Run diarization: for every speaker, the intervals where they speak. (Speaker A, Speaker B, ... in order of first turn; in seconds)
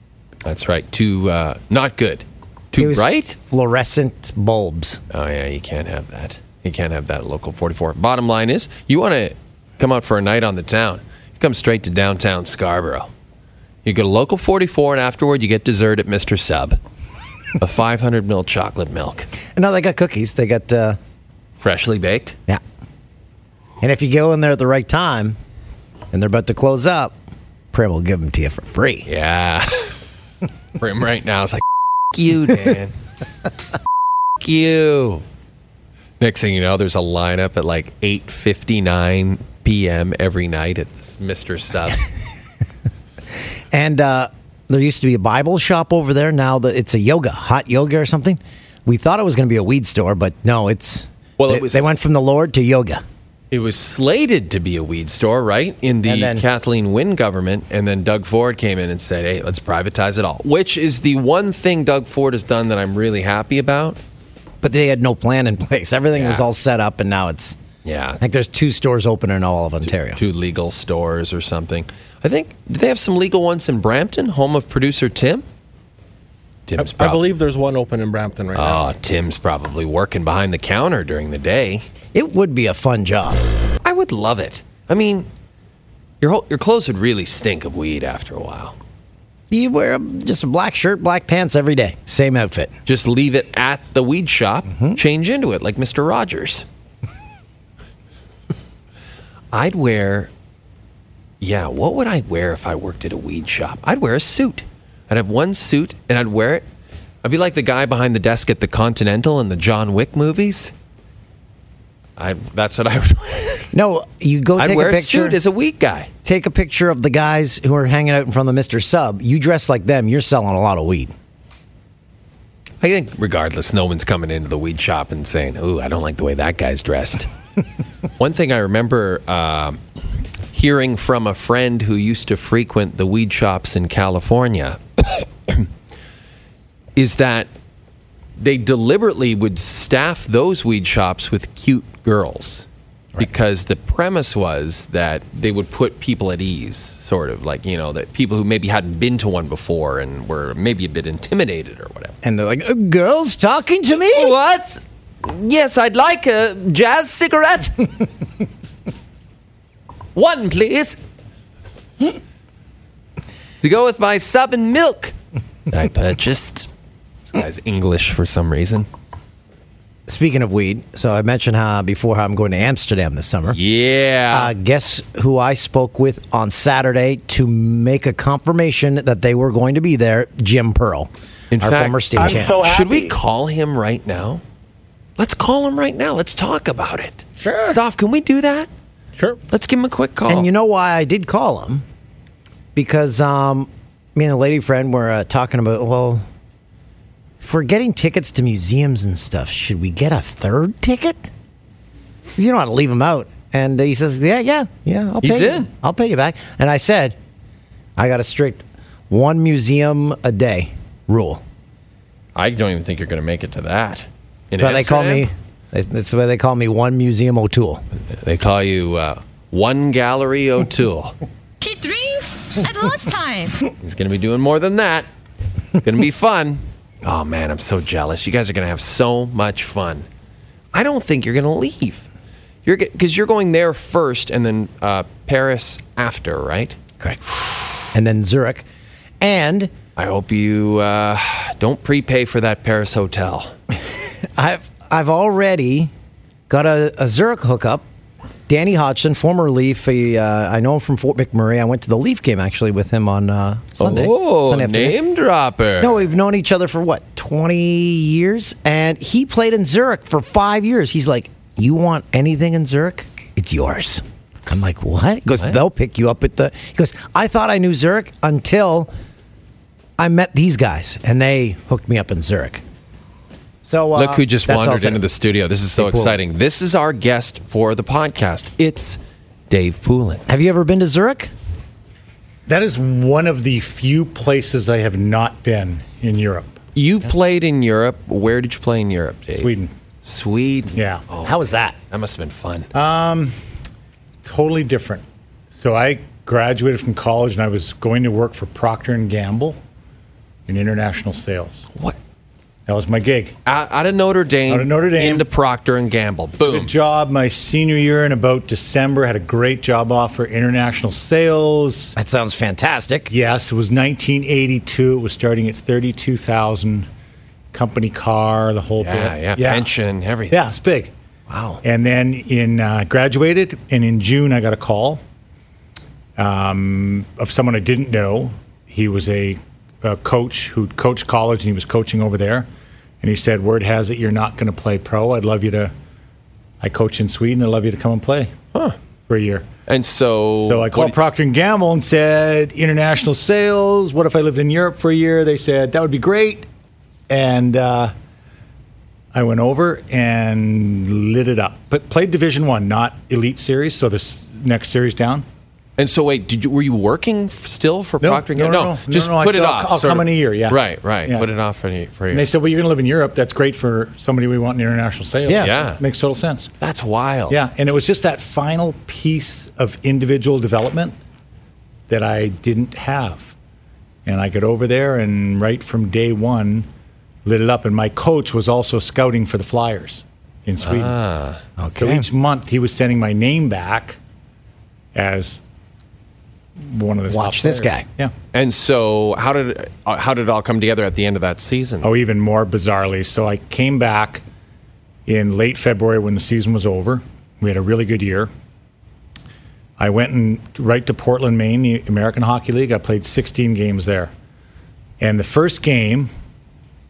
Speaker A: 0.5-3.4, 5.1-13.1, 13.8-16.8, 17.6-19.3, 21.6-22.4, 29.1-30.0, 30.8-33.0, 34.4-35.2, 36.2-42.0, 51.4-52.0, 53.5-64.0, 66.2-66.5, 67.8-68.2, 70.1-75.4, 76.7-77.2, 78.5-81.9, 83.8-85.3, 86.2-88.8, 92.9-96.7, 99.5-100.3, 101.4-106.6, 107.2-110.7, 112.2-113.7, 114.6-116.1, 122.8-127.3, 128.2-129.8, 130.5-135.7, 137.0-137.5, 138.4-142.7, 143.2-152.2, 154.1-157.9, 160.2-161.0, 163.6-165.1, 165.7-166.7, 167.3-168.9, 173.5-174.5, 181.5-184.4, 185.2-188.7, 189.5-190.5, 205.2-205.7, 212.3-215.3, 218.1-221.2, 223.8-225.1, 225.8-230.1, 230.7-232.1, 232.7-236.8, 240.0-243.6, 253.8-256.0, 273.9-279.0, 279.5-280.2, 286.8-289.5, 290.1-292.7, 303.5-306.7, 318.8-320.4, 339.7-341.0, 355.8-362.3, 365.3-365.8, 366.6-367.4, 380.6-381.4, 388.3-391.9
Speaker B: 2.8-5.0, 19.5-21.0, 23.8-25.4, 26.1-27.2, 27.7-29.1, 43.7-53.0, 56.0-56.4, 64.6-67.6, 68.2-70.2, 82.1-83.4, 89.5-92.7, 113.7-115.4, 116.2-121.1, 152.2-154.3, 170.1-173.6, 174.3-182.6, 187.4-187.8, 190.3-191.8, 192.8-196.2, 197.4-201.3, 202.4-207.2, 208.0-211.4, 214.6-217.8, 237.9-238.6, 239.2-239.7, 244.4-245.9, 246.5-247.8, 248.5-255.0, 255.8-268.9, 270.0-272.6, 273.6-275.0, 275.8-276.2, 280.3-281.3, 291.2-291.8, 312.0-313.1, 321.3-321.6, 365.3-365.5, 381.6-382.1, 387.1-387.8
Speaker C: 76.8-78.9, 182.2-183.2
Speaker D: 221.6-223.7
Speaker E: 282.5-286.6, 289.4-289.7, 290.8-291.0, 292.7-293.4, 294.2-299.6, 300.5-301.7, 302.7-303.3, 304.5-305.3, 306.4-311.9, 313.1-316.9, 317.5-319.7, 320.3-320.9, 321.6-325.0, 326.2-332.5, 333.0-335.7, 336.6-338.3, 339.1-339.5, 340.4-346.5, 347.1-347.9, 349.1-355.3, 358.0-361.3, 362.1-366.5, 367.3-371.0, 371.9-373.4, 374.1-376.7, 377.2-381.0, 381.8-384.0, 384.9-385.4, 386.6-388.1, 391.8-394.2, 395.1-398.3, 399.8-404.1, 405.0-406.1